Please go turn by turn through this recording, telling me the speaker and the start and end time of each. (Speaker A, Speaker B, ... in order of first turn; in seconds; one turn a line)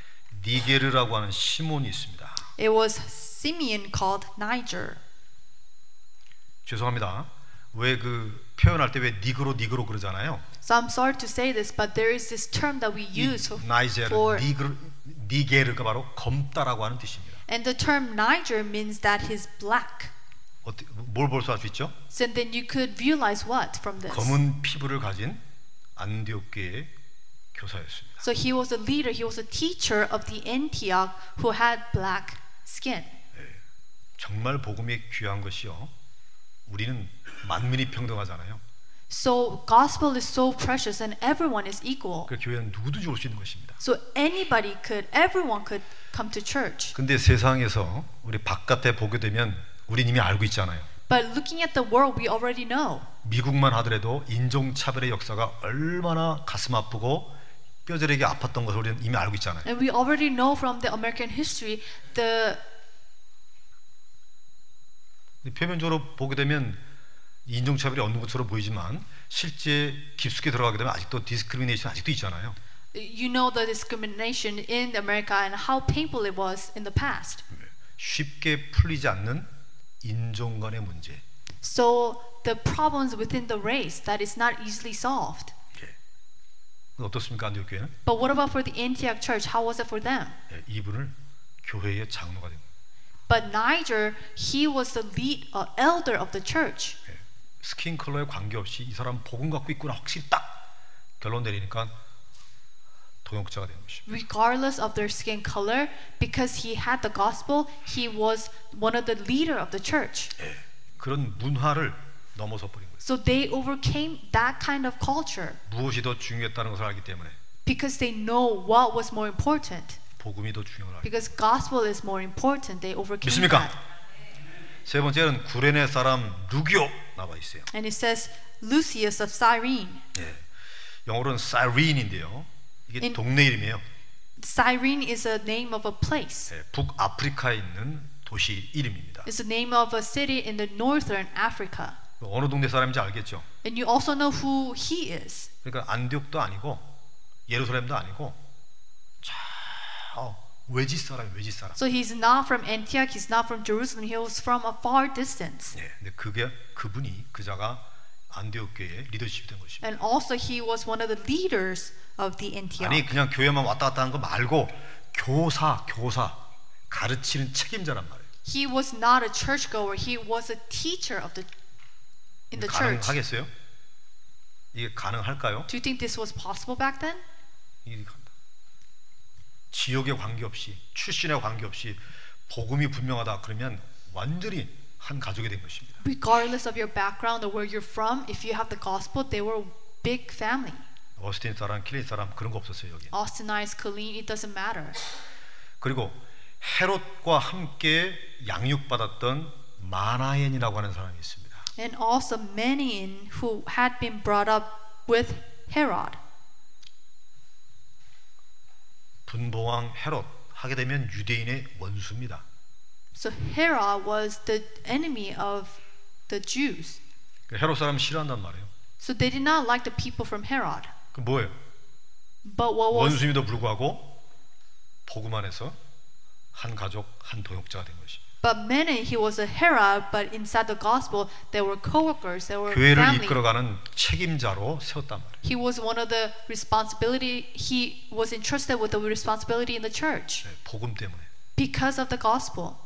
Speaker A: 0.3-2.5
Speaker B: 2.6-5.0
Speaker A: 6.7-10.4
Speaker B: 10.6-14.5
Speaker A: 13.1-17.4
Speaker B: 17.5-20.1
Speaker A: 20.6-21.9
Speaker B: 22.1-24.4
Speaker A: 24.1-25.4
Speaker A: 26.0-26.9
Speaker A: 27.5-28.2
Speaker B: 28.2-33.2
Speaker A: 33.3-33.6
Speaker A: 34.2-35.9
Speaker A: 36.7-38.6
Speaker B: 39.1-42.3
Speaker A: 42.3-43.8
Speaker B: 43.8-47.0
Speaker A: 47.0-50.9
Speaker B: 51.1-53.1
Speaker A: 53.2-57.4
Speaker A: 57.9-59.7
Speaker B: 59.6-62.6
Speaker A: 65.4-66.8
Speaker A: 67.5-72.6
Speaker B: 72.9-77.4
Speaker A: 77.5-79.5
Speaker A: 80.0-81.2
Speaker B: 81.6-85.5
Speaker A: 87.0-87.9
Speaker B: 88.0-90.4
Speaker A: 90.5-92.7
Speaker B: 93.3-97.0
Speaker A: 97.1-100.6
Speaker A: 101.2-101.9
Speaker A: 103.2-104.1
Speaker B: 104.1-110.3
Speaker A: 110.4-113.0
Speaker B: 113.0-115.6
Speaker A: 115.7-117.4
Speaker B: 117.7-120.0
Speaker A: 120.2-121.2
Speaker B: 121.0-123.8
Speaker A: 123.2-123.7
Speaker A: 124.8-127.7
Speaker B: 127.7-130.0
Speaker A: 130.1-130.4
Speaker A: 131.1-133.8
Speaker B: 134.4-136.5
Speaker A: 136.5-139.3
Speaker B: 139.3-142.0
Speaker A: 142.2-143.5
Speaker B: 143.6-145.5
Speaker A: 145.6-146.9
Speaker A: 147.5-148.4
Speaker A: 149.2-151.8
Speaker B: 151.8-155.8
Speaker A: 155.7-159.8
Speaker B: 159.8-163.1
Speaker A: 162.8-168.3
Speaker B: 168.4-171.5
Speaker B: 172.5-173.2
Speaker A: 172.5-173.5
Speaker A: 174.7-175.7
Speaker B: 175.7-177.2
Speaker A: 177.8-178.3
Speaker A: 179.7-186.0
Speaker B: 186.0-190.9
Speaker A: 191.2-193.1
Speaker B: 193.1-195.0
Speaker A: 195.8-201.7
Speaker B: 201.8-206.2
Speaker A: 209.3-212.4
Speaker B: 213.2-217.0
Speaker A: 217.5-218.7
Speaker B: 219.0-220.9
Speaker A: 221.1-221.6
Speaker B: 222.4-223.3
Speaker A: 222.9-224.2
Speaker A: 225.1-225.8
Speaker A: 226.5-228.2
Speaker B: 228.4-233.4
Speaker A: 232.7-235.4
Speaker B: 235.4-240.5
Speaker A: 240.4-241.3
Speaker B: 241.6-242.8